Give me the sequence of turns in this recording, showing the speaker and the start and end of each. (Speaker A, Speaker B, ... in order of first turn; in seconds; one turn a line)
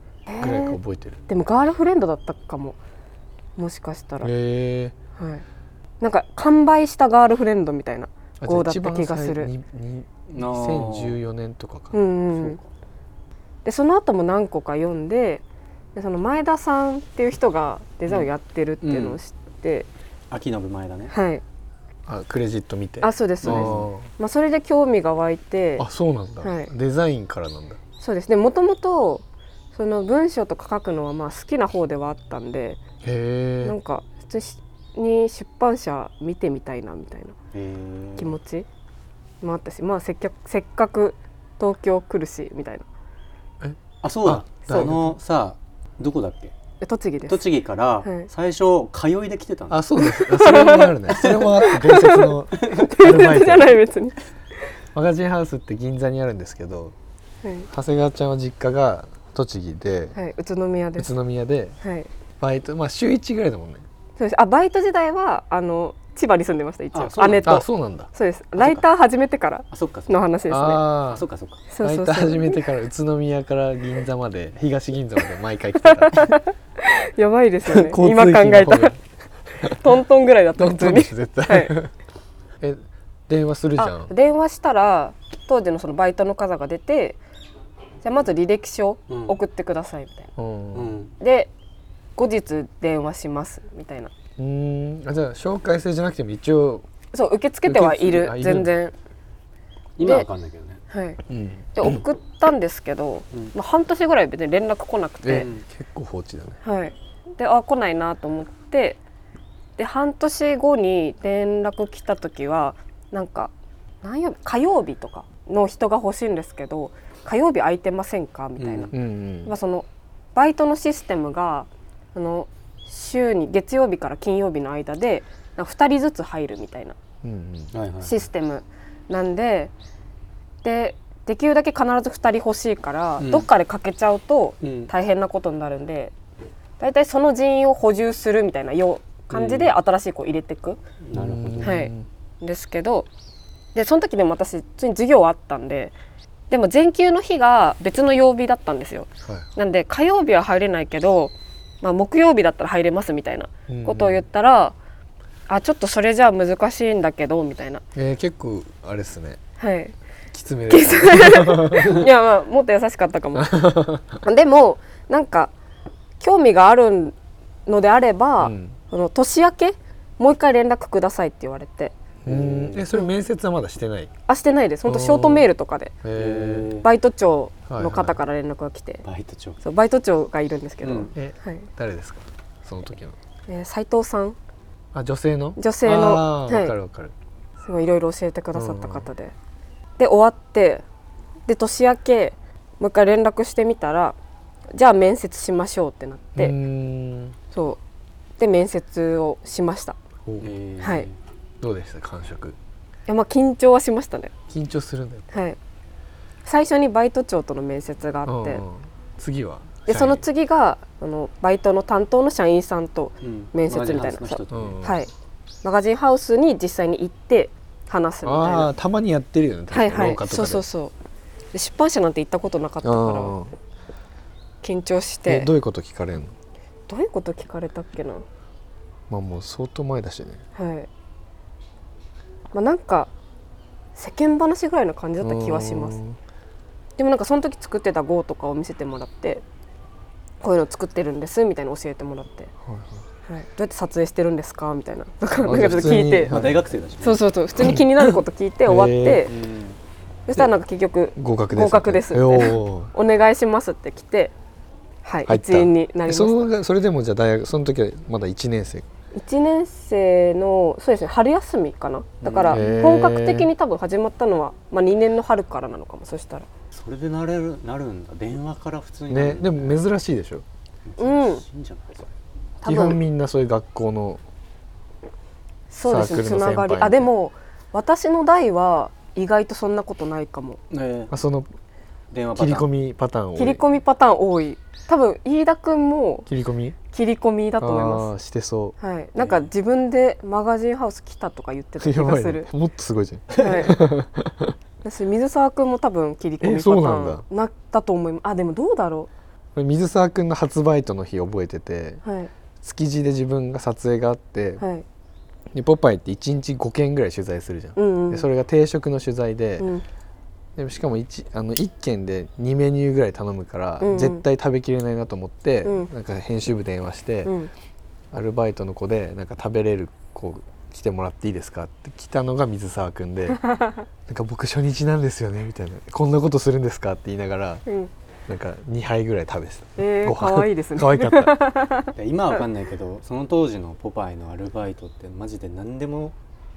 Speaker A: 0.3-2.8
Speaker B: 0.4-1.2
Speaker A: 3.6-4.3
Speaker B: 4.2-4.9
Speaker A: 5.2-5.4
Speaker A: 6.0-9.5
Speaker B: 8.4-12.0
Speaker C: 10.3-11.2
Speaker A: 11.9-12.6
Speaker C: 12.3-12.6
Speaker A: 13.6-15.4
Speaker A: 15.9-19.9
Speaker C: 18.8-19.2
Speaker C: 20.3-21.1
Speaker A: 21.1-21.4
Speaker B: 22.1-24.1
Speaker A: 23.0-25.9
Speaker C: 23.4-23.9
Speaker B: 25.8-27.8
Speaker A: 26.4-26.7
Speaker A: 28.0-32.8
Speaker B: 33.0-33.8
Speaker A: 33.6-37.3
Speaker C: 37.5-38.4
Speaker A: 38.2-38.7
Speaker A: 39.4-42.9
Speaker B: 43.6-45.2
Speaker C: 44.0-46.5
Speaker A: 46.8-47.5
Speaker C: 47.3-49.8
Speaker A: 48.0-48.3
Speaker B: 49.7-53.8
Speaker A: 50.0-54.2
Speaker C: 51.1-51.6
Speaker C: 52.6-52.9
Speaker B: 54.9-56.9
Speaker A: 57.4-57.7
Speaker B: 57.7-60.1
Speaker A: 60.1-61.1
Speaker B: 61.0-61.8
Speaker A: 61.8-62.1
Speaker B: 62.4-63.8
Speaker A: 64.2-71.0
Speaker C: 66.9-67.6
Speaker B: 67.4-68.1
Speaker C: 69.7-70.2
Speaker B: 70.5-71.2
Speaker C: 71.1-71.6
Speaker A: 71.7-72.7
Speaker B: 71.8-76.3
Speaker A: 75.8-79.0
Speaker B: 77.6-79.0
Speaker B: 79.6-79.9
Speaker A: 79.7-81.8
Speaker B: 80.5-81.9
Speaker B: 82.6-84.1
Speaker A: 83.8-87.2
Speaker A: 88.0-90.3
Speaker C: 89.1-89.3
Speaker B: 90.4-90.9
Speaker C: 90.7-91.1
Speaker A: 91.2-91.5
Speaker A: 92.2-94.1
Speaker B: 94.4-96.8
Speaker A: 97.1-98.9
Speaker B: 97.7-98.7
Speaker C: 100.0-100.8
Speaker A: 100.0-100.3
Speaker A: 100.9-101.2
Speaker B: 101.3-101.9
Speaker A: 101.7-105.5
Speaker B: 105.2-106.6
Speaker C: 105.3-105.6
Speaker A: 106.6-109.0
Speaker A: 109.8-113.5
Speaker A: 114.0-118.9
Speaker C: 118.6-118.9
Speaker B: 118.9-119.5
Speaker A: 119.4-127.0
Speaker B: 127.2-127.7
Speaker C: 127.7-128.2
Speaker A: 128.0-129.7
Speaker A: 130.6-136.1
Speaker C: 133.2-133.5
Speaker C: 134.6-134.9
Speaker A: 136.8-140.8
Speaker C: 139.3-139.7
Speaker C: 141.0-141.8
Speaker B: 141.1-142.1
Speaker A: 141.6-143.1
Speaker A: 143.7-145.9
Speaker A: 146.5-154.7
Speaker B: 153.7-154.2
Speaker A: 155.5-157.8
Speaker B: 157.9-159.4
Speaker A: 159.6-159.9
Speaker B: 160.3-162.0
Speaker A: 160.7-165.5
Speaker B: 163.3-164.2
Speaker A: 166.2-167.1
Speaker A: 167.7-171.9
Speaker B: 168.4-168.8
Speaker B: 172.2-174.1
Speaker C: 172.2-172.9
Speaker A: 174.3-175.9
Speaker B: 174.8-175.5
Speaker B: 176.0-176.7
Speaker C: 176.1-176.9
Speaker A: 176.8-179.0
Speaker B: 177.7-178.2
Speaker C: 179.0-179.6
Speaker A: 179.6-181.7
Speaker C: 180.8-181.1
Speaker B: 181.1-183.2
Speaker A: 183.5-184.4
Speaker B: 184.9-187.1
Speaker A: 185.6-186.7
Speaker A: 187.6-189.3
Speaker B: 188.5-189.1
Speaker A: 190.0-190.8
Speaker A: 191.4-194.2
Speaker A: 194.7-196.6
Speaker B: 196.3-197.3
Speaker A: 197.5-197.8
Speaker A: 198.4-200.0
Speaker B: 200.2-200.5
Speaker C: 200.4-201.2
Speaker A: 200.8-201.1
Speaker B: 201.6-202.6
Speaker A: 203.1-204.3
Speaker B: 204.5-205.3
Speaker A: 205.3-205.6
Speaker A: 206.4-208.6
Speaker B: 208.2-210.2
Speaker A: 209.8-215.1
Speaker C: 213.2-214.8
Speaker B: 214.5-215.0
Speaker A: 215.6-218.7
Speaker B: 218.2-220.6
Speaker A: 219.7-220.9
Speaker A: 221.5-223.4
Speaker B: 222.8-223.5
Speaker A: 224.6-225.5
Speaker B: 225.2-226.3
Speaker A: 226.9-228.2
Speaker B: 229.1-230.4
Speaker A: 230.5-230.9
Speaker A: 232.5-233.1
Speaker A: 233.9-236.0
Speaker B: 235.2-236.2
Speaker A: 237.0-239.4
Speaker A: 240.4-242.5
Speaker B: 242.7-243.1
Speaker A: 243.3-246.4
Speaker B: 245.4-246.6
Speaker C: 245.9-247.2
Speaker A: 247.0-249.3
Speaker B: 247.6-249.3
Speaker C: 249.2-249.8
Speaker A: 250.3-254.3
Speaker B: 251.2-252.9
Speaker A: 255.0-256.5
Speaker B: 255.2-258.9
Speaker A: 259.1-266.5
Speaker C: 262.2-262.6
Speaker B: 262.5-263.5
Speaker C: 266.7-269.8
Speaker B: 269.1-270.4
Speaker C: 270.9-272.1
Speaker A: 271.0-271.4
Speaker A: 272.6-273.0
Speaker B: 272.6-274.2
Speaker A: 275.7-280.6
Speaker B: 275.8-277.1
Speaker C: 280.7-281.1
Speaker B: 281.1-281.5
Speaker C: 282.1-282.7
Speaker B: 282.3-283.6
Speaker A: 283.3-286.3
Speaker B: 286.3-286.8
Speaker A: 286.9-288.1
Speaker B: 287.6-288.7
Speaker A: 288.8-292.5
Speaker C: 289.2-289.5
Speaker B: 291.8-294.5
Speaker A: 293.4-293.8
Speaker A: 294.8-299.1
Speaker B: 296.4-297.2
Speaker B: 299.6-302.0
Speaker A: 302.0-302.3
Speaker B: 302.6-304.6
Speaker A: 304.6-304.8
Speaker B: 305.5-309.7
Speaker A: 307.8-308.3
Speaker A: 309.6-309.8
Speaker B: 310.6-317.3
Speaker A: 313.8-314.2
Speaker A: 315.6-315.9
Speaker A: 317.2-317.5
Speaker B: 318.1-323.4
Speaker A: 323.4-323.9
Speaker B: 324.1-327.6
Speaker A: 327.6-327.9
Speaker B: 328.3-331.4
Speaker A: 329.8-331.9
Speaker C: 331.9-336.1